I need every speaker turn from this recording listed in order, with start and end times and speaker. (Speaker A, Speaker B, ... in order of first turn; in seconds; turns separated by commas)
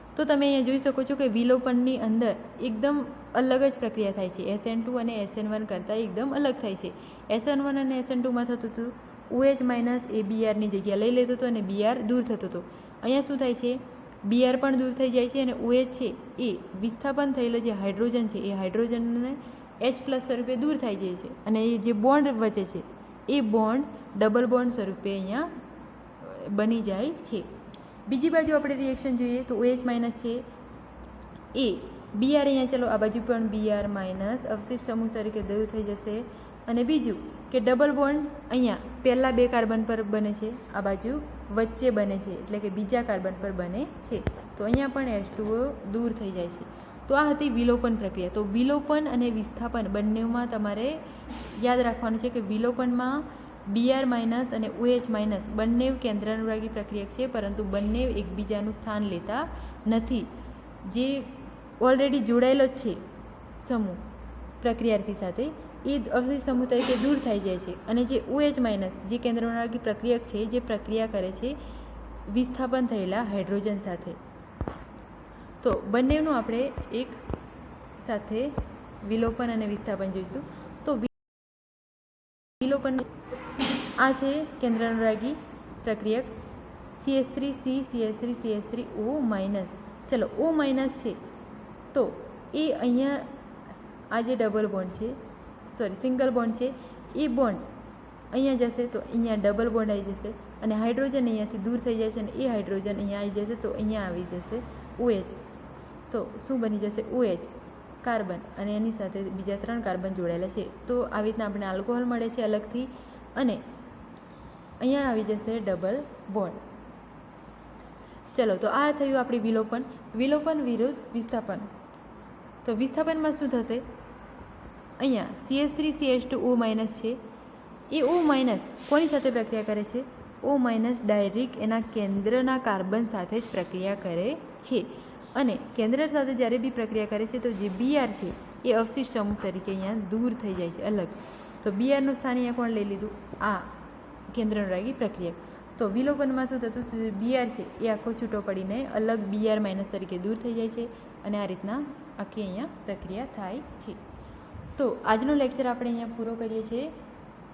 Speaker A: 0.1-25.5, Speaker A: 26.2-27.5, Speaker A: 28.1-30.4, Speaker A: 31.5-51.0, Speaker A: 51.6-60.3, Speaker A: 60.8-63.0, Speaker A: 63.6-64.0, Speaker A: 64.6-71.6, Speaker A: 72.3-74.2, Speaker A: 75.6-77.2, Speaker A: 78.0-81.3, Speaker A: 82.6-83.1, Speaker A: 84.0-86.4, Speaker A: 87.0-91.2, Speaker A: 91.9-93.3, Speaker A: 94.1-97.7, Speaker A: 98.3-105.4, Speaker A: 106.1-113.6, Speaker A: 114.8-116.6, Speaker A: 118.3-121.7, Speaker A: 122.6-123.8, Speaker A: 125.0-127.2, Speaker A: 127.9-143.8, Speaker A: 144.3-154.0, Speaker A: 154.8-156.9